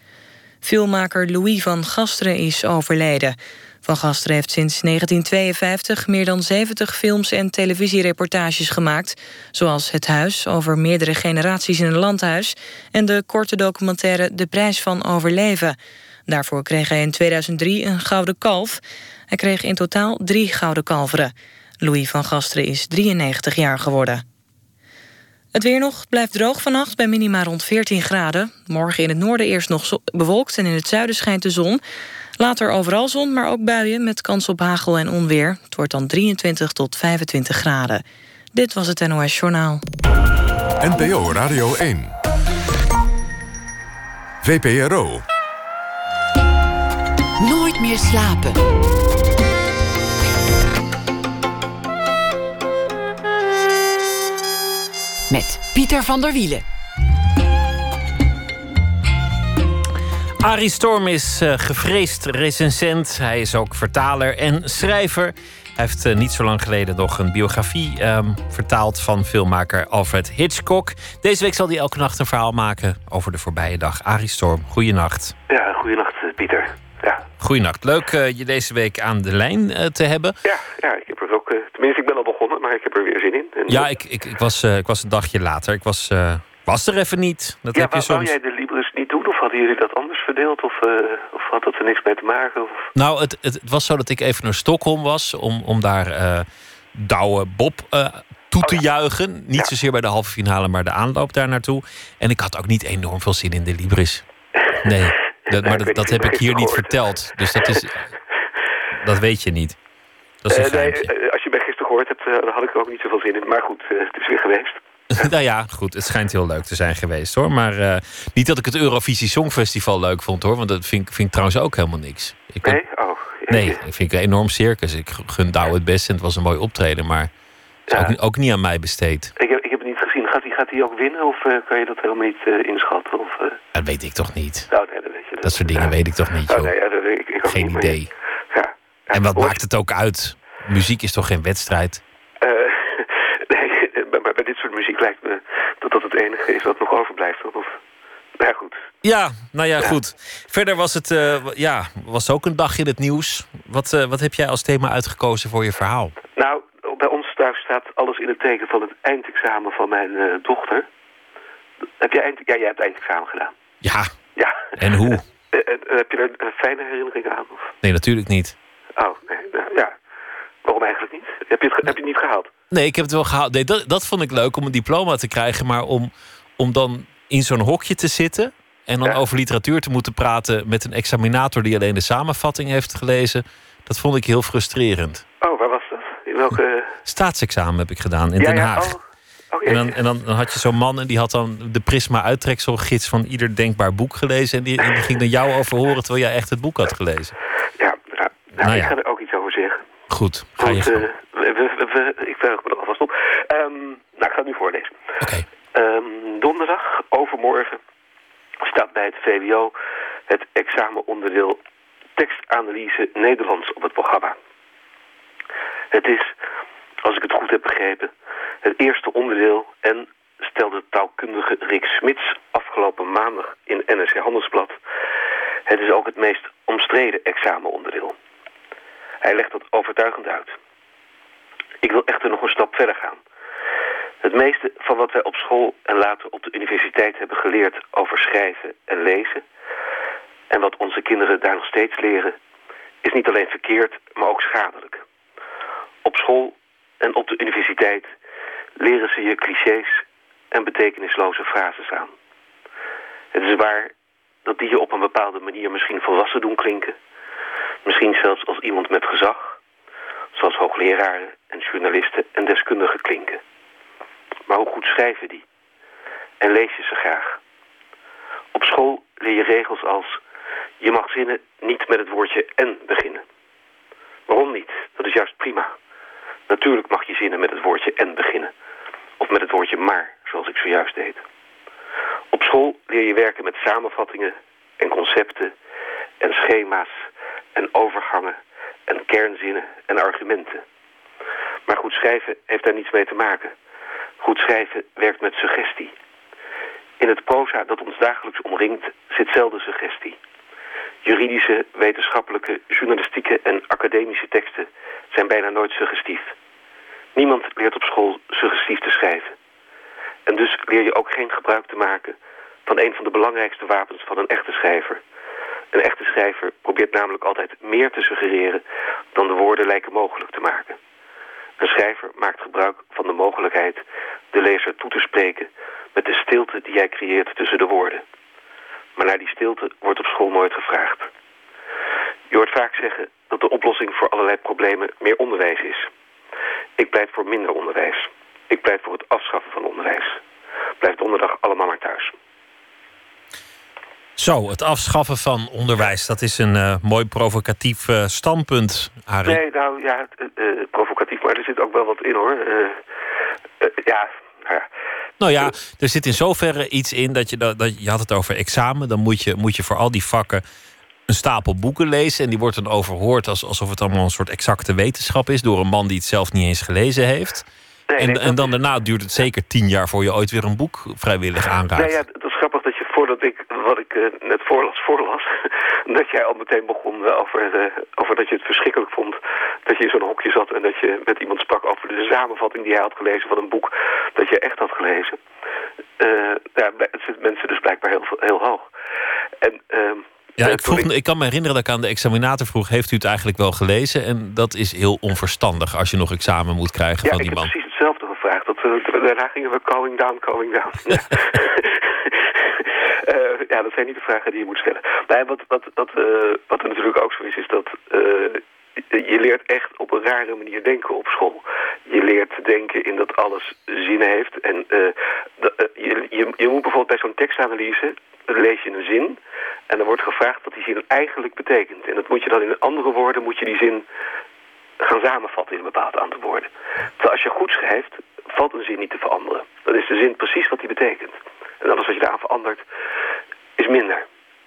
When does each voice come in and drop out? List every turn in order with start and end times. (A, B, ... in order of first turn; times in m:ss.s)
0:00.6-0:24.2 A
0:25.5-0:31.8 A
0:32.4-0:39.8 A
0:40.8-0:42.1 B
0:44.4-0:45.2 B
0:47.4-0:48.6 C
0:55.3-0:56.6 C
1:00.4-1:15.3 D
1:15.5-1:17.2 E
1:17.4-1:20.4 D
1:20.4-1:23.9 E
1:23.7-1:28.3 D
1:27.7-1:32.9 E
1:32.9-1:44.2 D
1:44.8-1:48.0 D
1:45.5-1:47.0 E
1:49.0-1:49.8 D
1:50.4-1:51.1 D
1:50.5-1:54.8 E
1:55.2-2:02.8 D
2:02.6-2:03.8 E
2:03.5-2:07.3 D
2:07.9-2:08.2 E
2:07.9-2:09.3 D
2:09.4-2:13.6 E
2:13.7-2:14.7 D
2:14.7-2:18.0 E
2:15.4-2:16.7 D
2:17.4-2:18.1 D
2:18.5-2:19.6 E
2:19.1-2:22.0 D
2:22.4-2:27.8 E
2:28.4-2:28.8 E
2:29.0-2:36.1 D
2:36.4-2:40.9 E
2:42.0-2:43.5 E
2:43.8-2:44.1 D
2:44.4-2:47.7 E
2:44.8-2:45.2 D
2:47.8-2:48.5 D
2:49.0-2:49.9 E
2:50.6-2:52.5 E
2:52.7-3:05.2 D
3:05.4-3:06.9 E
3:07.0-3:09.0 D
3:08.4-3:09.0 E
3:09.5-3:09.9 E
3:09.6-3:17.3 D
3:17.8-3:19.8 E
3:18.6-3:18.9 D
3:20.1-3:21.1 D
3:20.6-3:24.9 E
3:25.7-3:27.8 E
3:28.6-3:29.7 E
3:30.3-3:31.6 E
3:32.2-3:34.3 E
3:35.9-3:36.3 E
3:37.0-3:38.1 E
3:38.6-3:44.8 E
3:45.7-3:48.1 E
3:49.2-3:50.6 E
3:51.8-3:53.2 E
3:54.2-3:59.4 E
4:00.5-4:02.3 E
4:03.0-4:05.0 E
4:06.0-4:08.1 E
4:08.8-4:10.0 E
4:10.5-4:12.1 E
4:13.3-4:13.9 E
4:14.4-4:16.9 E
4:17.8-4:19.4 E
4:20.3-4:23.4 E
4:24.5-4:25.4 E
4:26.4-4:27.4 E
4:28.5-4:30.2 E
4:30.8-4:33.2 E
4:34.3-4:35.7 E
4:36.5-4:38.5 E
4:39.2-4:41.2 E
4:42.3-4:45.5 E
4:46.2-4:46.9 E
4:47.5-4:48.4 E
4:48.9-4:50.6 E
4:51.7-4:53.5 E
4:54.2-4:55.9 E
4:57.0-5:00.2 E
5:01.0-5:06.3 E
5:07.1-5:09.3 E
5:10.3-5:12.1 E
5:12.6-5:15.0 E
5:15.7-5:18.6 E
5:19.1-5:20.8 E
5:21.6-5:23.8 E
5:24.3-5:28.0 E
5:29.0-5:31.1 E
5:32.3-5:35.9 E
5:36.8-5:40.2 E
5:40.8-5:42.1 E
5:44.2-5:49.4 D
5:49.2-5:52.8 E
5:53.6-5:54.7 E
5:55.2-6:00.4 D
6:01.1-6:07.4 D
6:07.9-6:08.5 E
6:08.0-6:12.0 D
6:11.7-6:15.3 E
6:15.9-6:25.2 E
6:26.0-6:28.7 E
6:29.4-6:30.9 E
6:30.4-6:37.5 D
6:37.0-6:41.7 E
6:43.1-6:59.2 E
6:59.7-7:03.8 E
7:04.8-7:12.6 E
7:13.6-7:14.0 E